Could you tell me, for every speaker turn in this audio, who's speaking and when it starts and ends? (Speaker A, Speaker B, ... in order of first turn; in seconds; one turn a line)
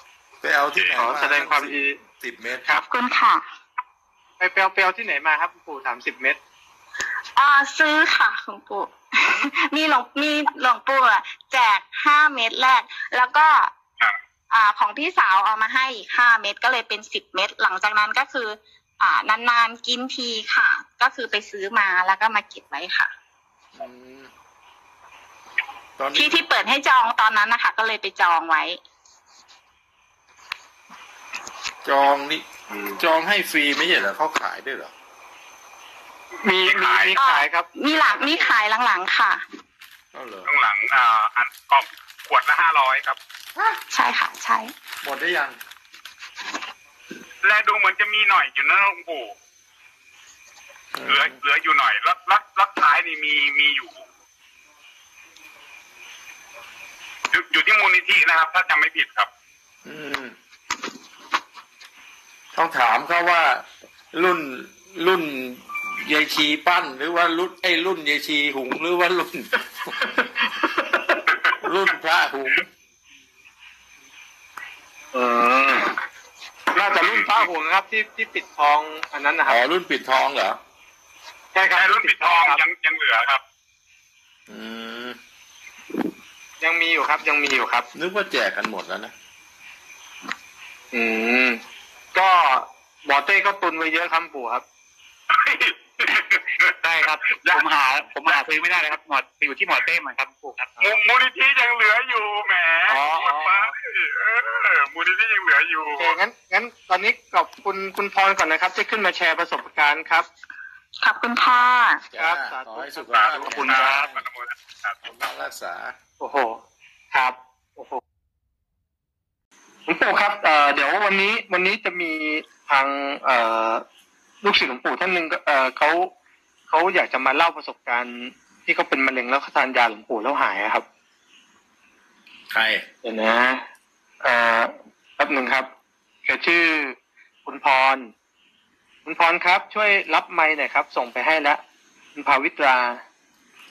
Speaker A: 0.4-2.9
Speaker B: 0.9-2.0
Speaker C: 2.7-3.4
Speaker B: 4.4-6.4
Speaker C: 7.4-13.7
Speaker C: 14.5-23.1
Speaker A: 23.8-24.3
Speaker A: 26.0-26.4
Speaker C: 26.1-28.8
Speaker A: 31.8-32.5
Speaker B: 32.7-33.0
Speaker A: 33.0-34.9
Speaker B: 36.4-38.5
Speaker D: 36.6-37.2
Speaker C: 37.2-39.4
Speaker A: 40.1-40.5
Speaker D: 40.5-43.2
Speaker C: 43.9-44.7
Speaker A: 45.0-45.6
Speaker D: 47.4-49.4
Speaker A: 50.9-51.4
Speaker D: 51.1-54.0
Speaker D: 57.3-59.3
Speaker A: 59.9-60.4
Speaker A: 62.5-69.9
Speaker B: 70.0-71.2
Speaker A: 71.6-72.7
Speaker B: 75.1-76.0
Speaker B: 76.8-79.6
Speaker D: 77.0-77.5
Speaker A: 79.5-80.6
Speaker B: 81.5-82.6
Speaker D: 81.7-83.4
Speaker A: 84.5-85.2
Speaker B: 86.6-87.9
Speaker A: 88.0-89.1
Speaker B: 90.9-91.6
Speaker B: 92.1-94.6
Speaker D: 95.3-96.7
Speaker E: 96.8-100.7
Speaker D: 100.8-106.2
Speaker B: 102.9-103.7
Speaker B: 106.0-110.3
Speaker C: 111.0-112.0
Speaker A: 112.1-114.2
Speaker B: 112.2-113.7
Speaker D: 113.1-115.0
Speaker E: 113.5-114.1
Speaker A: 115.0-116.0
Speaker B: 116.2-116.6
Speaker B: 117.1-118.0
Speaker B: 119.9-123.8
Speaker B: 124.4-126.1
Speaker B: 126.7-130.8
Speaker A: 132.5-132.8
Speaker B: 133.0-133.6
Speaker B: 134.2-135.7
Speaker B: 136.3-138.1
Speaker B: 139.1-141.6
Speaker B: 142.2-143.0